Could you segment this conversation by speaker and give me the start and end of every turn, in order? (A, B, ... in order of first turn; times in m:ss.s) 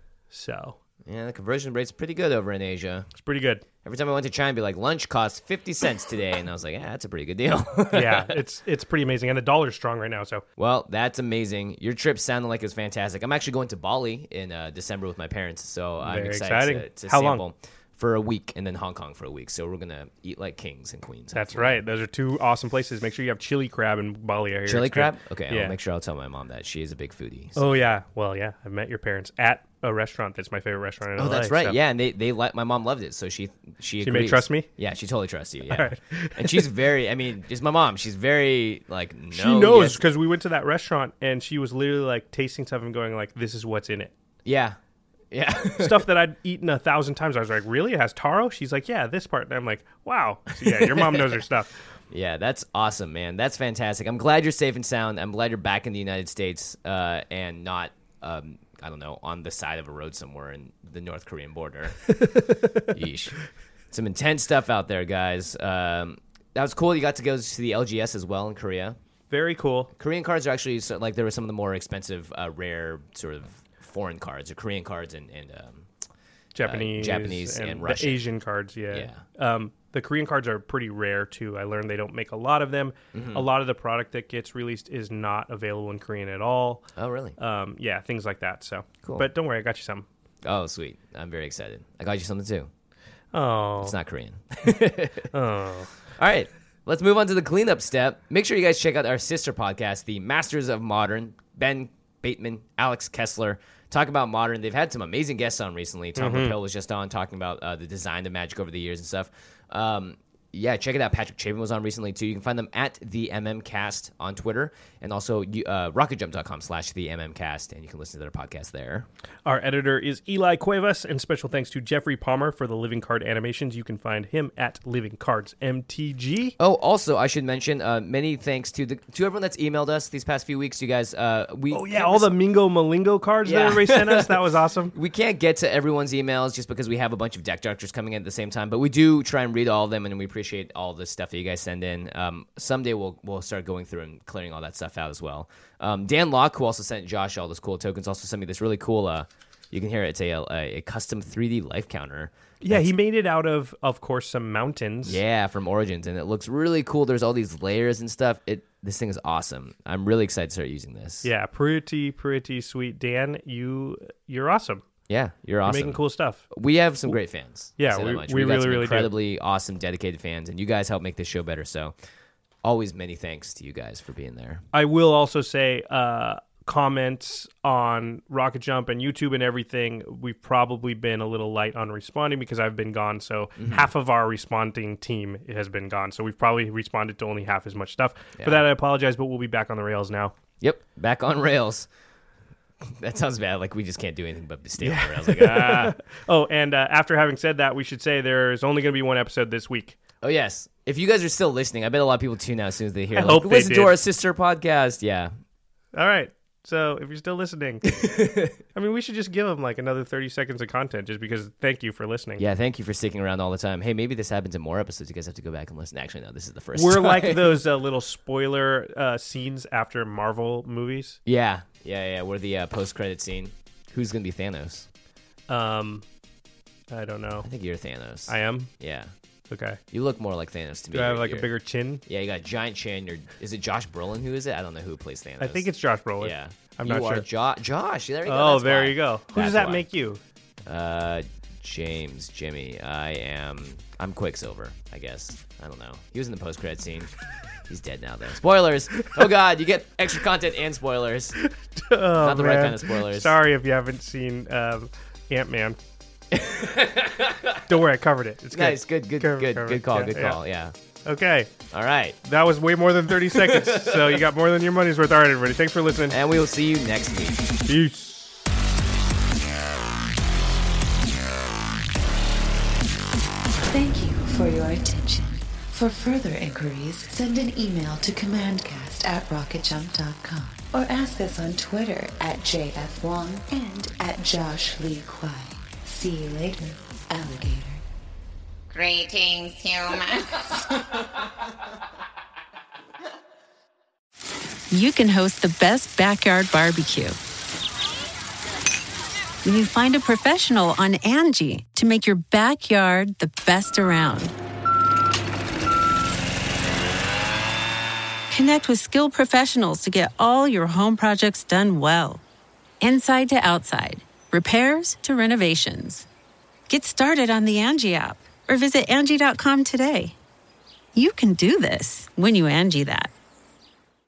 0:00.3-0:00.8 A
0:01.0-0:03.1 B
0:03.1-0:03.6 A
0:03.8-0:08.4 B
0:07.9-0:10.4 A
0:10.6-0:21.8 B
0:16.0-0:17.4 A
0:21.3-0:25.8 A
0:24.7-0:27.8 B
0:27.6-0:31.8 A
0:31.2-0:40.0 B
0:34.0-0:34.7 A
0:35.7-0:36.7 A
0:39.3-0:44.1 A
0:44.4-0:44.8 B
0:45.3-0:46.1 B
0:45.8-0:51.7 A
0:50.6-0:51.4 B
0:52.1-1:03.4 B
1:02.2-1:02.9 A
1:03.9-1:09.0 B
1:09.3-1:09.9 A
1:10.0-1:15.9 B
1:16.5-1:26.9 A
1:16.6-1:18.2 B
1:18.9-1:19.2 B
1:23.1-1:23.4 B
1:26.9-1:27.4 B
1:27.4-1:30.0 A
1:30.4-1:32.7 B
1:33.3-1:34.0 A
1:33.8-1:35.3 B
1:35.3-1:35.9 A
1:36.2-1:59.1 B
1:46.2-1:46.6 A
1:59.4-2:06.5 A
2:06.6-2:12.3 B
2:11.7-2:14.9 A
2:13.4-2:14.4 B
2:14.9-2:32.9 B
2:32.6-2:35.2 A
2:35.0-2:41.3 B
2:41.2-2:44.8 A
2:45.1-2:51.9 B
2:45.6-2:46.4 A
2:47.8-2:49.1 A
2:52.6-2:54.6 B
2:54.7-3:10.4 A
3:03.6-3:03.9 B
3:08.4-3:08.6 B
3:10.6-3:11.9 B
3:12.8-3:16.0 B
3:14.8-3:20.0 A
3:20.2-3:25.3 B
3:23.1-3:24.0 A
3:25.9-3:27.9 A
3:27.8-3:28.6 B
3:28.5-3:32.4 A
3:32.4-3:37.6 B
3:36.7-3:41.2 A
3:41.2-3:44.9 B
3:45.5-3:46.0 A
3:46.9-3:47.5 A
3:47.4-3:49.1 B
3:48.3-3:48.7 A
3:49.5-3:49.8 A
3:49.9-3:51.5 B
3:50.9-3:52.0 A
3:52.0-3:55.7 B
3:55.4-3:57.2 A
3:56.2-3:59.8 B
3:58.2-4:00.2 A
4:00.6-4:07.1 B
4:07.7-4:11.4 B
4:11.4-4:15.8 A
4:12.2-4:13.4 B
4:16.3-4:17.6 B
4:17.7-4:20.4 A
4:18.5-4:20.7 B
4:21.0-4:21.5 A
4:21.7-4:22.2 B
4:22.2-4:26.2 A
4:23.2-4:24.2 B
4:26.1-4:27.5 B
4:27.7-4:28.3 A
4:33.7-4:47.8 C
4:48.7-4:51.0 D
4:54.7-4:57.2 E
4:59.4-5:04.3 E
5:08.3-5:12.2 E
5:12.8-5:16.1 E
5:16.7-5:20.2 E
5:20.9-5:23.1 E